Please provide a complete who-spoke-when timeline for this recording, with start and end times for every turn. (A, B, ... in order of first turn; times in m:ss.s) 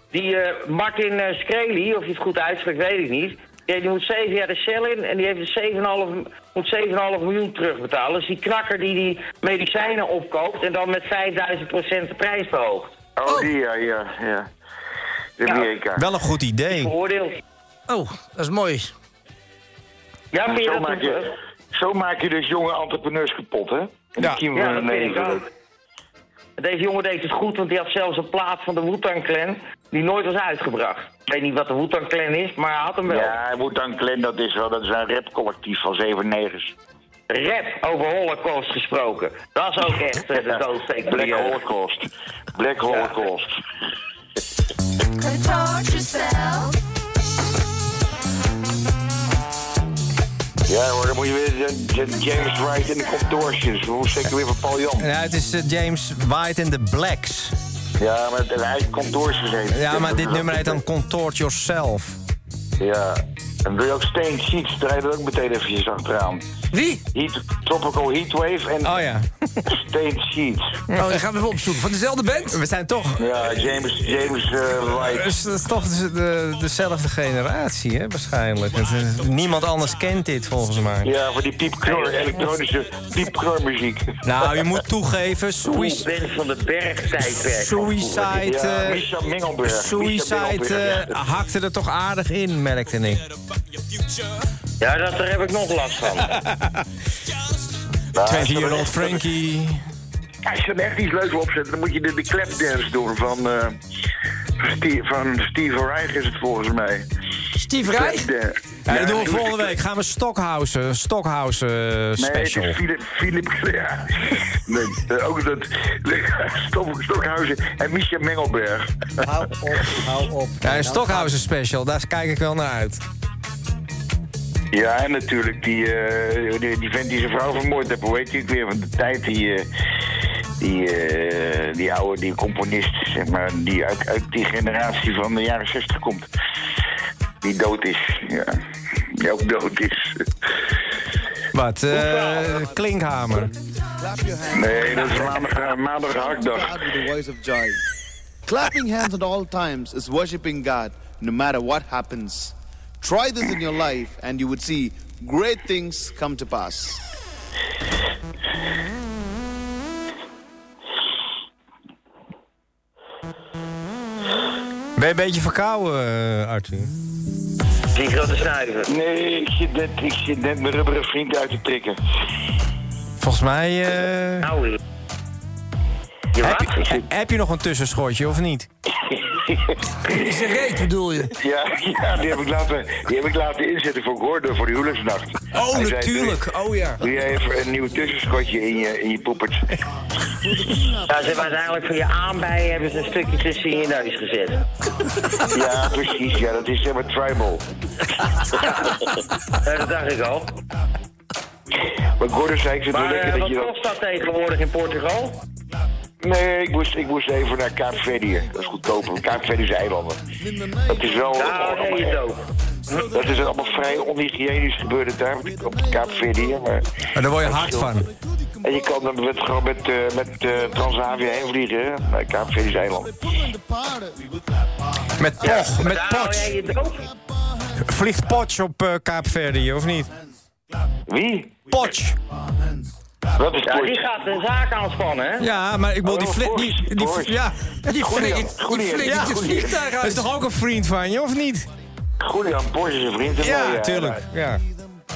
0:00.1-0:13.0 A
0:13.2-0:14.5 B
0:15.4-0:16.1 B
0:15.4-0:15.7 A
0:16.0-0:16.9 C
0:16.7-0:17.4 A
0:17.9-0:18.9 D
0:20.3-0:21.3 A
0:20.5-0:21.2 B
0:21.7-0:25.4 B
0:24.5-0:25.5 A
0:26.6-0:33.4 A
0:33.1-0:36.7 B
0:37.3-0:41.6 A
0:40.4-0:43.5 B
0:42.9-0:43.2 A
0:50.7-0:55.1 B
0:55.0-0:57.6 C
0:58.0-1:00.8 B
0:59.7-1:02.2 C
1:02.8-1:06.4 B
1:06.7-1:07.0 D
1:07.1-1:09.0 B
1:08.8-1:09.7 C
1:09.7-1:10.7 B
1:10.9-1:11.2 C
1:11.0-1:12.6 D
1:12.5-1:13.2 C
1:13.2-1:15.3 B
1:15.1-1:21.1 C
1:21.0-1:24.5 B
1:21.8-1:22.2 A
1:24.2-1:26.1 C
1:25.6-1:28.5 A
1:27.5-1:29.0 C
1:28.4-1:31.1 B
1:29.6-1:33.2 C
1:34.8-1:36.3 A
1:36.4-1:36.7 C
1:38.2-1:39.2 B
1:38.2-1:39.8 C
1:40.4-1:43.8 B
1:44.6-1:47.1 B
1:47.6-1:48.3 D
1:47.8-1:49.8 B
1:48.9-1:52.8 C
1:52.2-1:59.1 B
1:59.2-2:01.4 E
2:00.6-2:03.0 C
2:04.7-2:09.7 B
2:10.6-2:16.3 B
2:17.4-2:18.6 B
2:19.1-2:20.2 B
2:21.5-2:23.5 C
2:21.9-2:22.5 A
2:24.0-2:27.8 F
2:24.5-2:26.7 B
2:28.4-2:37.1 F
2:45.0-2:46.9 C
2:47.9-2:48.9 A
2:48.9-2:52.0 B
2:53.2-2:54.5 C
2:54.4-2:54.8 A
2:56.3-2:57.0 A
2:56.4-2:58.7 C
2:59.4-2:59.7 B
3:00.1-3:01.3 D
3:01.4-3:06.4 B
3:05.5-3:07.0 C
3:07.0-3:09.7 B
3:10.4-3:11.7 F
3:11.1-3:14.6 A
3:15.5-3:17.6 B
3:19.6-3:20.6 A
3:22.2-3:23.7 B
3:22.9-3:25.4 A
3:26.2-3:30.2 B
3:30.4-3:31.5 F
3:30.9-3:32.2 B
3:31.3-3:32.4 A
3:32.9-3:34.1 F
3:33.1-3:36.8 B
3:35.4-3:36.7 F
3:37.2-3:38.1 C
3:37.4-3:38.2 F
3:37.4-3:37.9 B
3:38.6-3:43.2 B
3:40.7-3:41.4 F
3:42.8-3:44.7 F
3:45.2-3:46.5 C
3:45.2-3:45.6 F
3:45.4-3:47.0 A
3:47.1-3:47.8 F
3:47.8-3:50.1 C
3:51.1-3:51.6 B
3:51.7-3:52.2 C
3:51.9-3:52.9 F
3:53.4-3:54.0 B
3:53.6-3:55.5 A
3:55.4-3:58.2 C
3:56.0-3:57.4 B
3:57.9-4:00.3 D
3:57.9-3:59.9 B
3:59.0-3:59.4 C
4:00.0-4:01.7 C
4:02.2-4:04.2 B
4:03.4-4:04.6 C